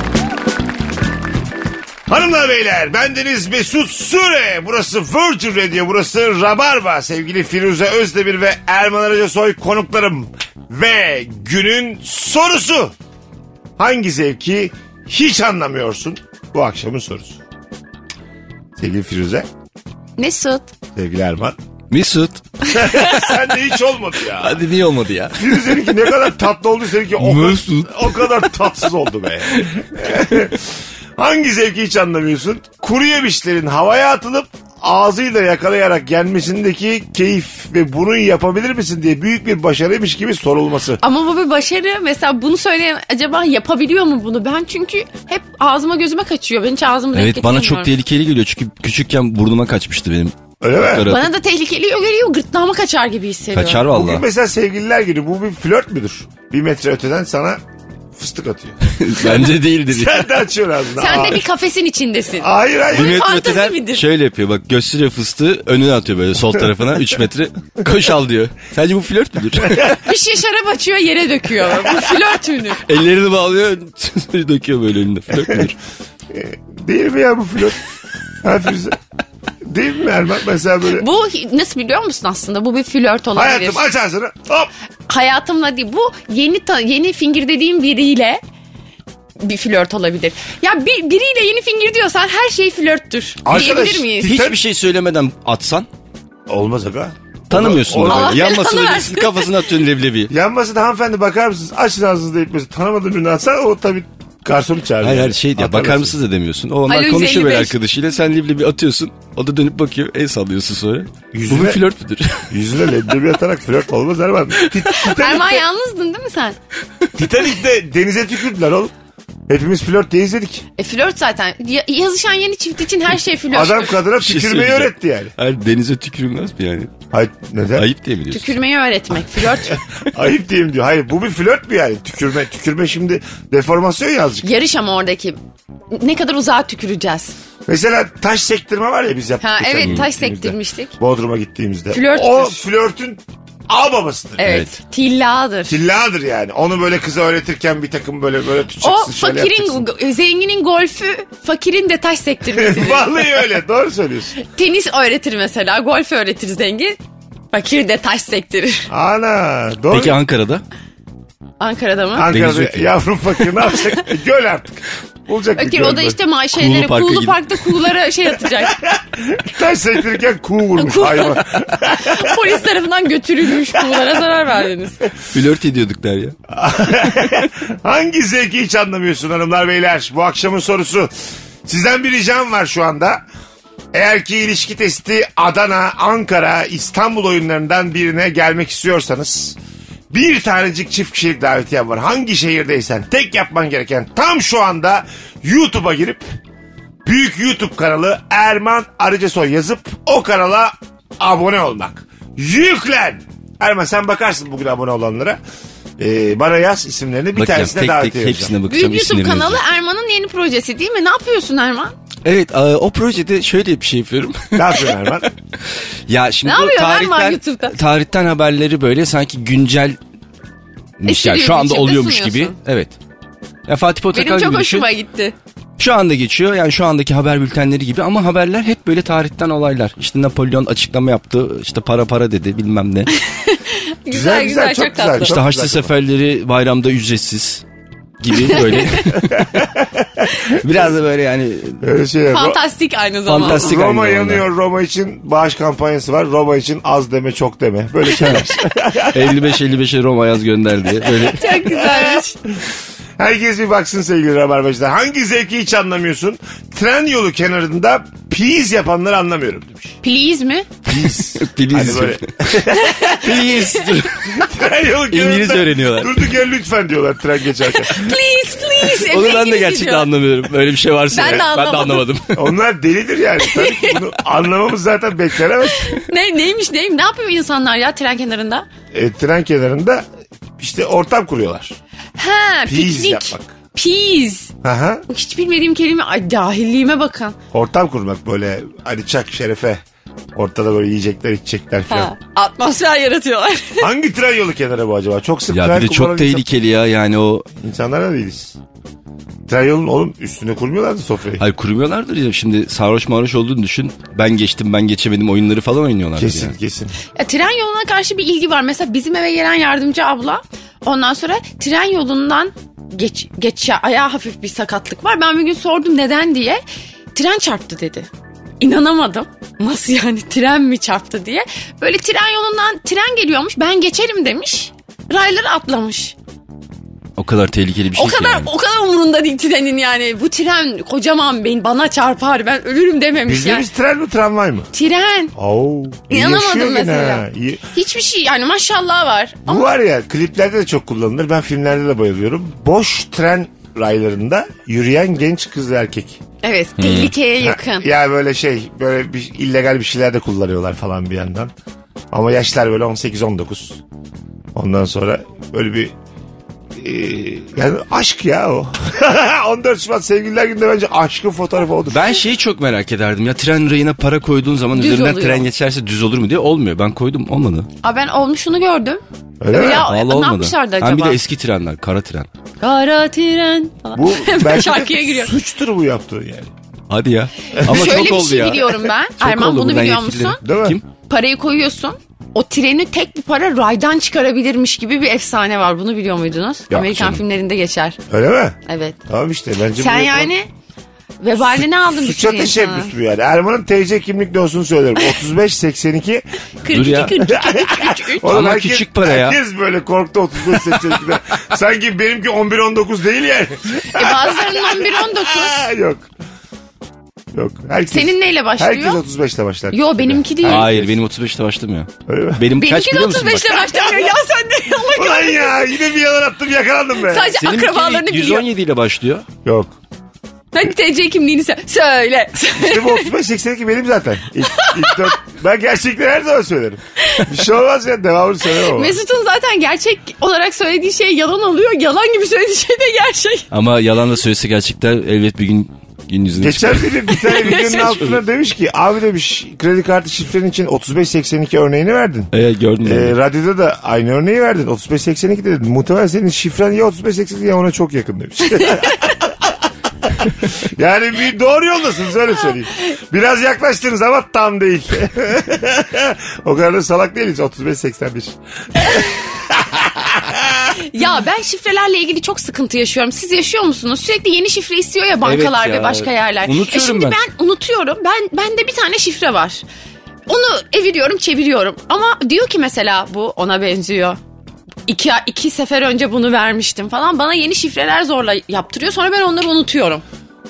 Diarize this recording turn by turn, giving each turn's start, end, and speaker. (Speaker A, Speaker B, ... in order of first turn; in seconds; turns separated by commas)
Speaker A: 2.1-12.9, Speaker A: 13.8-17.4, Speaker A: 18.8-19.5, Speaker B: 20.2-20.7, Speaker A: 20.9-21.6, Speaker C: 21.9-22.4, Speaker A: 22.7-24.6, Speaker B: 22.8-23.1, Speaker C: 24.4-25.4, Speaker A: 25.3-41.0, Speaker C: 27.2-28.3, Speaker B: 41.0-47.9, Speaker C: 47.1-51.3, Speaker A: 50.6-51.1, Speaker B: 51.0-53.8, Speaker C: 53.5-54.2, Speaker A: 53.9-57.6, Speaker A: 58.1-61.5, Speaker C: 58.8-60.3, Speaker B: 61.0-64.0, Speaker A: 62.4-63.3, Speaker C: 62.9-70.0, Speaker B: 69.9-72.8, Speaker C: 72.8-75.8, Speaker A: 76.3-77.8, Speaker A: 78.4-79.0, Speaker A: 79.6-81.0, Speaker B: 80.9-83.9, Speaker A: 83.3-84.7, Speaker B: 85.1-88.4, Speaker B: 89.4-94.3, Speaker A: 93.4-94.6, Speaker C: 94.2-95.9, Speaker A: 96.5-98.5, Speaker C: 97.5-100.3, Speaker B: 98.0-99.7, Speaker A: 100.3-106.1, Speaker C: 105.0-112.5, Speaker B: 106.9-107.7, Speaker A: 111.3-111.8, Speaker A: 112.5-115.6, Speaker B: 114.9-116.6, Speaker A: 117.1-118.9, Speaker A: 119.5-120.6, Speaker B: 120.8-124.0, Speaker A: 123.5-125.3, Speaker C: 124.2-126.9, Speaker A: 127.1-127.9, Speaker C: 127.8-128.5, Speaker B: 128.3-129.8, Speaker A: 129.7-134.5, Speaker B: 134.4-135.4, Speaker B: 135.9-137.3, Speaker A: 137.7-144.6, Speaker B: 139.4-140.9, Speaker C: 139.8-140.0, Speaker B: 141.9-142.6, Speaker B: 144.4-145.8, Speaker C: 144.4-144.7, Speaker A: 145.7-149.9, Speaker B: 148.8-153.3, Speaker A: 152.5-154.3, Speaker B: 154.3-157.0, Speaker B: 157.5-158.9, Speaker A: 158.9-160.2, Speaker C: 159.9-160.6, Speaker B: 161.6-162.3, Speaker A: 162.1-166.2, Speaker C: 162.3-162.9, Speaker B: 165.6-168.8, Speaker C: 166.5-167.9, Speaker A: 168.8-172.5, Speaker B: 170.8-175.0, Speaker A: 173.7-174.2, Speaker C: 175.3-176.3, Speaker A: 176.5-181.1, Speaker A: 181.6-183.2, Speaker A: 183.9-189.6, Speaker A: 190.1-196.2, Speaker A: 197.0-205.4, Speaker A: 206.0-208.5, Speaker C: 207.3-209.6, Speaker B: 208.7-211.9, Speaker C: 212.2-215.3, Speaker A: 214.5-215.3, Speaker C: 216.1-220.0, Speaker B: 216.4-217.8, Speaker C: 221.0-222.9, Speaker B: 221.1-222.5, Speaker C: 223.7-224.8, Speaker B: 224.1-225.3, Speaker C: 225.8-233.1, Speaker B: 233.1-235.3, Speaker A: 234.1-235.9, Speaker C: 235.2-237.6, Speaker C: 238.2-239.5, Speaker B: 238.5-239.0, Speaker A: 239.3-240.4, Speaker C: 240.5-241.8, Speaker A: 241.8-242.6, Speaker B: 242.3-243.7, Speaker C: 243.3-244.4, Speaker A: 243.4-249.5, Speaker C: 248.1-248.5, Speaker C: 249.0-251.5, Speaker B: 251.2-252.3, Speaker A: 251.5-252.2, Speaker A: 253.2-260.0, Speaker B: 260.0-260.7, Speaker A: 260.9-263.4, Speaker C: 260.9-262.5, Speaker B: 262.8-263.2, Speaker C: 263.0-264.4, Speaker A: 264.3-268.2, Speaker C: 265.1-266.2, Speaker B: 267.6-270.1, Speaker C: 269.0-272.4, Speaker B: 271.1-272.1, Speaker A: 272.3-275.9, Speaker B: 273.4-273.9, Speaker B: 275.7-278.7, Speaker A: 278.9-280.1, Speaker A: 280.6-281.7, Speaker B: 282.1-284.5, Speaker A: 282.7-283.5, Speaker A: 284.6-285.0, Speaker B: 285.1-287.4, Speaker A: 287.5-289.8, Speaker A: 290.3-292.1, Speaker B: 291.9-293.9, Speaker A: 293.8-296.4, Speaker C: 295.5-297.5, Speaker A: 297.6-298.6, Speaker A: 299.5-301.4, Speaker C: 301.4-306.5, Speaker A: 306.2-306.9, Speaker B: 307.1-316.6, Speaker B: 317.1-326.1, Speaker C: 327.2-328.5, Speaker B: 327.9-333.7, Speaker A: 333.2-334.7, Speaker B: 334.7-335.3, Speaker A: 335.3-337.6, Speaker B: 336.1-339.7, Speaker A: 339.5-346.2, Speaker B: 346.4-347.9, Speaker C: 346.8-347.1, Speaker A: 347.4-351.5, Speaker A: 352.1-353.8, Speaker A: 354.5-355.9, Speaker A: 356.8-362.0, Speaker C: 361.9-367.7, Speaker B: 364.7-365.4, Speaker B: 367.8-371.2, Speaker A: 369.4-369.9, Speaker C: 369.9-372.3, Speaker B: 372.6-375.3, Speaker A: 373.9-376.5, Speaker C: 376.9-380.8, Speaker A: 377.6-378.0, Speaker B: 377.6-380.4, Speaker A: 380.4-380.8, Speaker B: 381.1-388.0, Speaker C: 386.7-387.2, Speaker A: 388.1-390.3, Speaker B: 388.6-389.0, Speaker B: 389.8-390.5, Speaker B: 391.2-392.9, Speaker A: 391.8-396.2, Speaker B: 396.6-398.4, Speaker C: 396.7-397.2, Speaker A: 397.2-406.1, Speaker C: 398.2-399.4, Speaker B: 403.9-405.6, Speaker A: 407.3-410.9, Speaker B: 407.9-409.0, Speaker B: 409.7-410.7, Speaker C: 410.4-413.6, Speaker A: 412.1-412.4, Speaker B: 412.6-415.7, Speaker A: 413.7-414.1, Speaker A: 414.8-417.3, Speaker B: 417.0-418.5, Speaker C: 417.3-419.3, Speaker A: 419.4-419.8, Speaker B: 420.5-423.1, Speaker A: 422.5-429.0, Speaker B: 424.6-425.1, Speaker B: 427.0-427.3, Speaker B: 428.6-433.5, Speaker C: 433.5-437.0, Speaker A: 436.4-442.3, Speaker B: 437.1-438.1, Speaker C: 442.3-443.1, Speaker A: 442.8-460.8, Speaker B: 460.8-469.6, Speaker C: 465.2-467.2, Speaker B: 470.3-474.2, Speaker B: 474.9-480.0